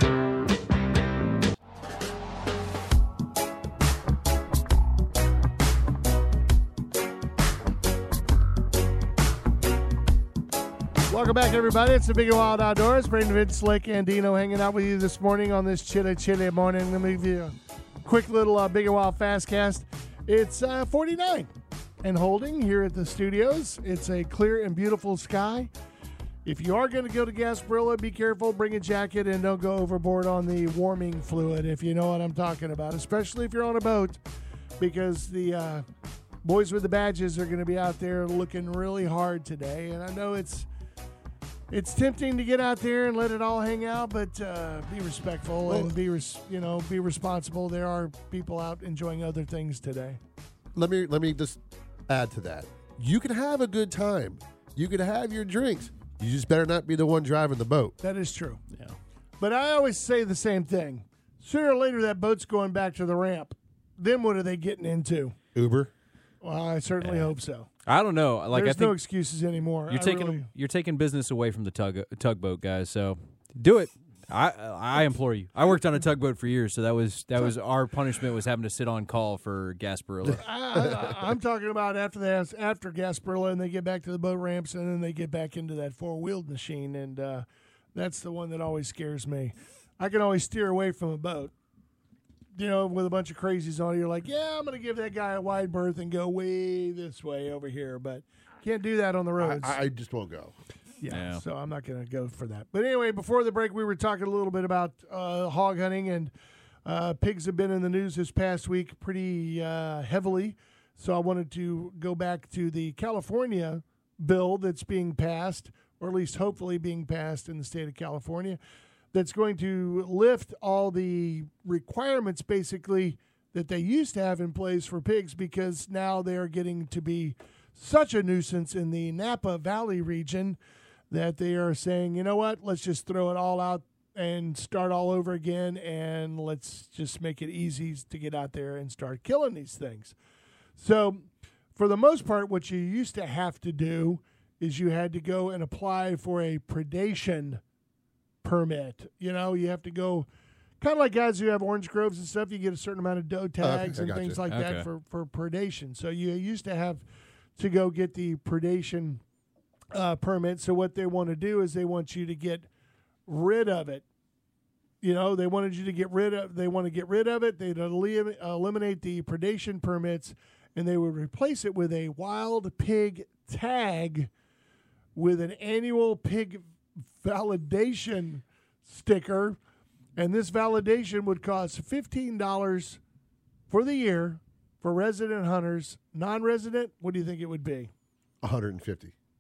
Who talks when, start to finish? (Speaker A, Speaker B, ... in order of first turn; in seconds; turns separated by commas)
Speaker A: 11.1-17.5, Speaker A: 18.1-21.5, Speaker A: 22.0-25.7, Speaker A: 26.4-34.2, Speaker A: 34.8-35.9, Speaker A: 36.4-40.7, Speaker A: 41.7-50.2, Speaker B: 45.7-46.0, Speaker B: 50.7-58.0, Speaker A: 58.0-58.6, Speaker A: 59.4-65.3, Speaker B: 65.5-65.9, Speaker A: 66.4-67.7, Speaker C: 67.0-67.3, Speaker C: 67.9-69.0, Speaker A: 68.5-70.5, Speaker C: 69.9-80.5, Speaker B: 80.3-81.2, Speaker A: 80.3-91.5, Speaker A: 92.5-99.8, Speaker B: 99.4-100.6, Speaker A: 101.0-106.3, Speaker C: 101.1-101.4, Speaker A: 106.8-118.6, Speaker A: 119.1-130.6, Speaker A: 131.1-140.2, Speaker A: 140.8-147.6, Speaker A: 148.4-150.3, Speaker A: 150.8-157.0, Speaker B: 153.6-154.4, Speaker C: 154.5-154.9, Speaker A: 157.6-159.2, Speaker A: 159.9-162.7, Speaker A: 163.3-164.0, Speaker A: 165.0-174.3, Speaker A: 175.2-176.6, Speaker A: 177.2-179.6, Speaker A: 180.2-183.0, Speaker A: 183.7-187.9, Speaker B: 188.4-189.1